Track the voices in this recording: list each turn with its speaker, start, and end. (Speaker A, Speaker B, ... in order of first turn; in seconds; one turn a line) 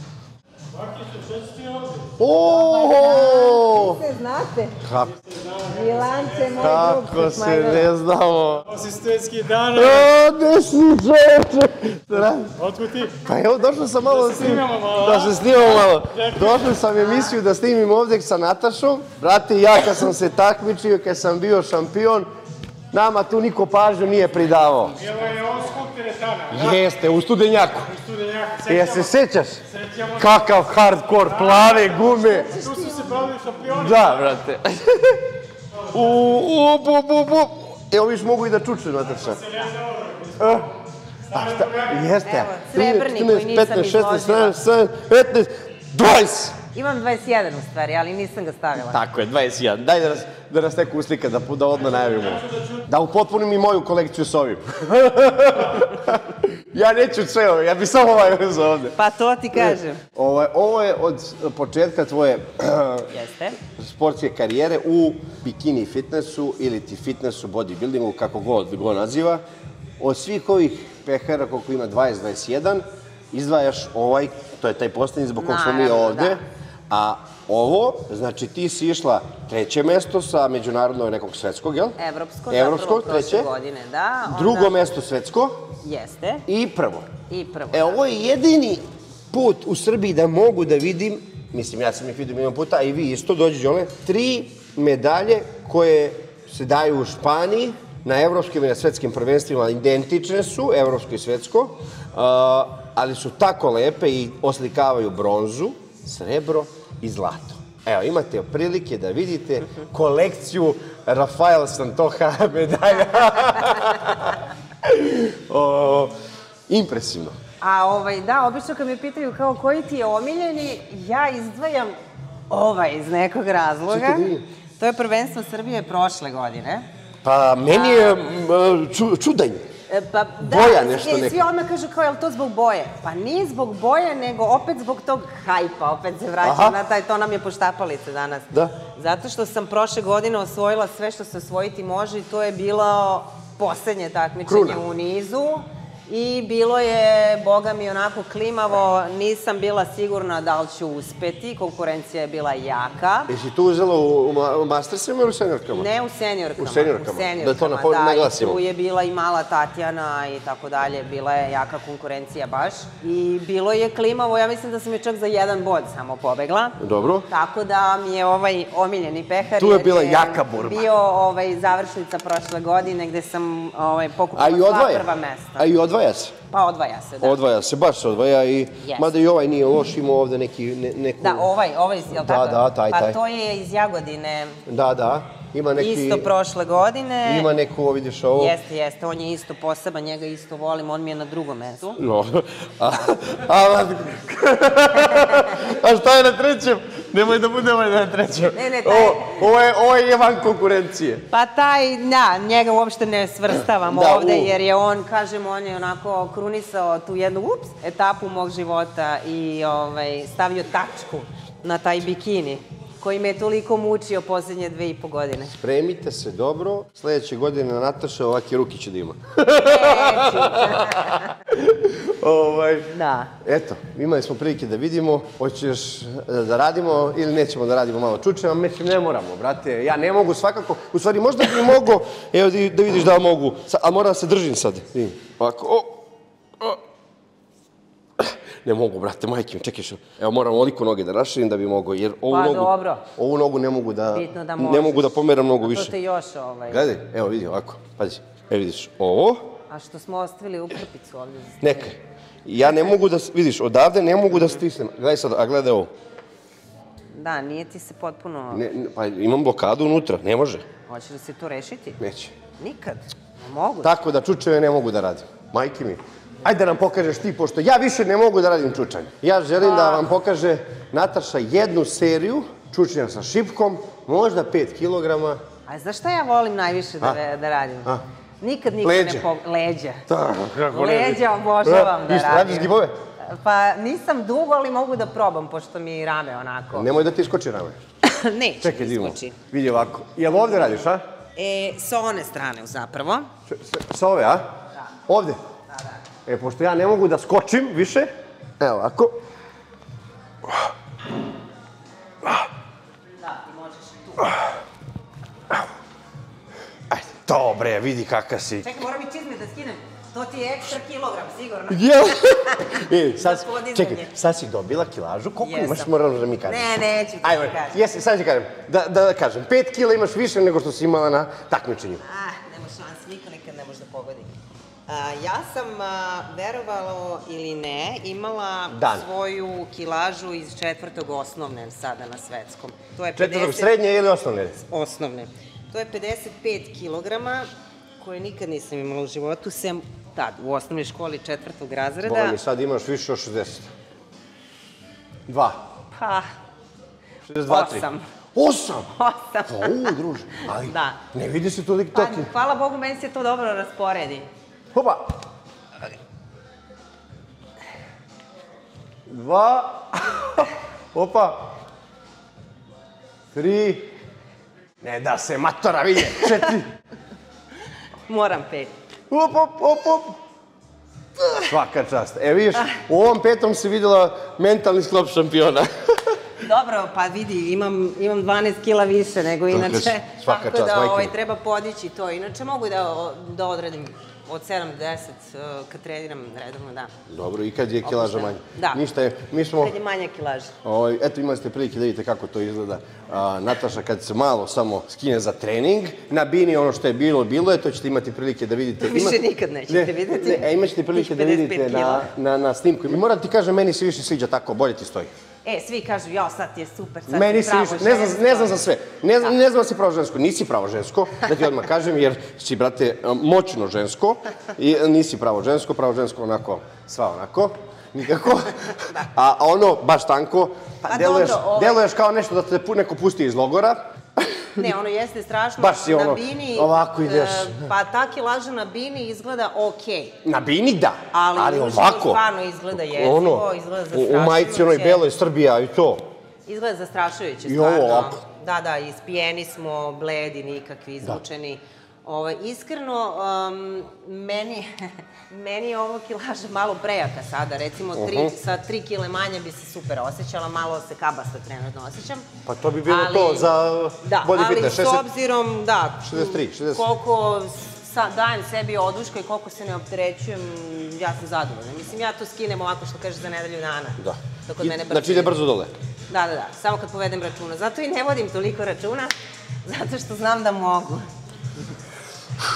Speaker A: 0.7-2.1
Speaker B: 2.2-4.0
Speaker C: 2.4-4.8
Speaker B: 4.8-5.2
Speaker A: 5.1-6.9
Speaker C: 5.6-7.9
Speaker B: 6.5-8.7
Speaker A: 8.7-10.1
Speaker B: 9.7-12.6
Speaker A: 12.6-13.2
Speaker B: 13.2-22.3
Speaker A: 14.0-16.8
Speaker B: 22.9-25.0
Speaker C: 24.4-25.9
Speaker A: 25.0-26.8
Speaker B: 26.5-27.9
Speaker A: 27.9-29.1
Speaker B: 28.7-29.6
Speaker A: 29.7-34.3
Speaker B: 30.1-32.5
Speaker C: 32.1-33.3
Speaker B: 33.7-35.3
Speaker B: 35.9-39.4
Speaker A: 39.3-40.6
Speaker B: 40.4-40.7
Speaker B: 41.3-46.6
Speaker A: 41.3-42.1
Speaker C: 42.2-44.6
Speaker C: 46.7-49.0
Speaker B: 48.9-59.0
Speaker C: 59.0-60.0
Speaker B: 59.6-63.1
Speaker C: 63.1-63.6
Speaker B: 63.7-69.4
Speaker B: 70.0-82.0
Speaker C: 75.4-76.4
Speaker C: 82.0-84.9
Speaker B: 82.5-83.5
Speaker B: 84.3-85.6
Speaker C: 85.8-86.5
Speaker B: 86.5-87.1
Speaker C: 87.3-88.0
Speaker B: 87.7-116.1
Speaker B: 116.7-117.4
Speaker C: 117.6-121.9
Speaker C: 122.5-126.9
Speaker B: 123.9-124.4
Speaker B: 127.2-129.7
Speaker C: 127.7-128.3
Speaker C: 129.9-153.3
Speaker B: 130.4-131.5
Speaker B: 136.4-136.8
Speaker B: 144.5-144.8
Speaker B: 153.3-155.9
Speaker C: 155.8-175.8
Speaker B: 156.6-158.6
Speaker B: 166.8-167.3
Speaker B: 169.6-170.9
Speaker B: 174.3-176.3
Speaker C: 176.5-177.4
Speaker B: 177.2-181.5
Speaker C: 178.8-179.1
Speaker C: 181.2-184.6
Speaker B: 182.1-183.2
Speaker B: 184.7-186.3
Speaker C: 185.8-187.5
Speaker B: 187.2-188.6
Speaker C: 188.3-192.0
Speaker B: 192.0-201.2
Speaker C: 198.5-199.4
Speaker C: 201.3-215.6
Speaker B: 203.9-204.6
Speaker B: 215.5-236.0
Speaker C: 219.6-221.3
Speaker C: 222.9-223.3
Speaker B: 238.2-245.9
Speaker C: 242.3-243.1
Speaker C: 244.1-246.9
Speaker B: 246.7-249.5
Speaker C: 249.7-251.9
Speaker B: 251.6-255.9
Speaker C: 257.1-258.6
Speaker B: 258.5-260.6
Speaker C: 260.9-262.0
Speaker B: 262.0-262.3
Speaker C: 262.6-263.9
Speaker B: 263.8-275.4
Speaker C: 269.6-270.1
Speaker C: 275.7-280.1
Speaker B: 278.8-279.3
Speaker B: 280.1-282.9
Speaker C: 280.6-282.7
Speaker C: 283.3-286.9
Speaker B: 286.7-287.8
Speaker C: 288.0-289.4
Speaker B: 288.6-291.0
Speaker C: 291.4-293.3
Speaker B: 293.5-294.5
Speaker B: 295.1-295.4
Speaker C: 295.7-296.0
Speaker B: 296.3-299.2
Speaker C: 303.2-304.4
Speaker B: 306.9-308.7
Speaker C: 308.6-314.1
Speaker B: 311.7-322.0
Speaker C: 315.4-317.8
Speaker C: 322.0-324.4
Speaker C: 324.9-333.7
Speaker B: 328.7-329.1
Speaker B: 333.2-334.6
Speaker C: 334.6-337.5
Speaker C: 338.0-342.4
Speaker B: 342.0-343.7
Speaker B: 345.3-345.6
Speaker C: 345.9-346.3
Speaker B: 347.3-348.9
Speaker C: 347.4-348.1
Speaker C: 348.9-351.0
Speaker B: 349.5-352.3
Speaker C: 351.9-354.3
Speaker B: 354.7-355.2
Speaker B: 359.1-361.6
Speaker B: 363.3-363.9
Speaker B: 364.8-366.7
Speaker C: 368.1-368.7
Speaker B: 369.1-370.2
Speaker B: 371.3-376.2
Speaker C: 376.4-386.9
Speaker B: 379.5-381.1
Speaker B: 387.1-389.7
Speaker C: 387.9-388.8
Speaker C: 389.6-390.5
Speaker B: 390.6-405.1
Speaker C: 398.8-402.1
Speaker C: 405.4-408.7
Speaker B: 407.1-424.7
Speaker C: 420.9-421.8
Speaker C: 424.6-430.2
Speaker B: 425.6-427.7
Speaker B: 430.2-432.2
Speaker C: 431.1-435.1
Speaker B: 432.8-436.1
Speaker C: 436.5-452.3
Speaker B: 437.4-438.2
Speaker B: 447.9-448.3
Speaker B: 452.5-455.1
Speaker C: 452.9-465.4
Speaker B: 456.0-456.9
Speaker B: 464.0-465.7
Speaker C: 466.1-469.1
Speaker C: 469.6-471.1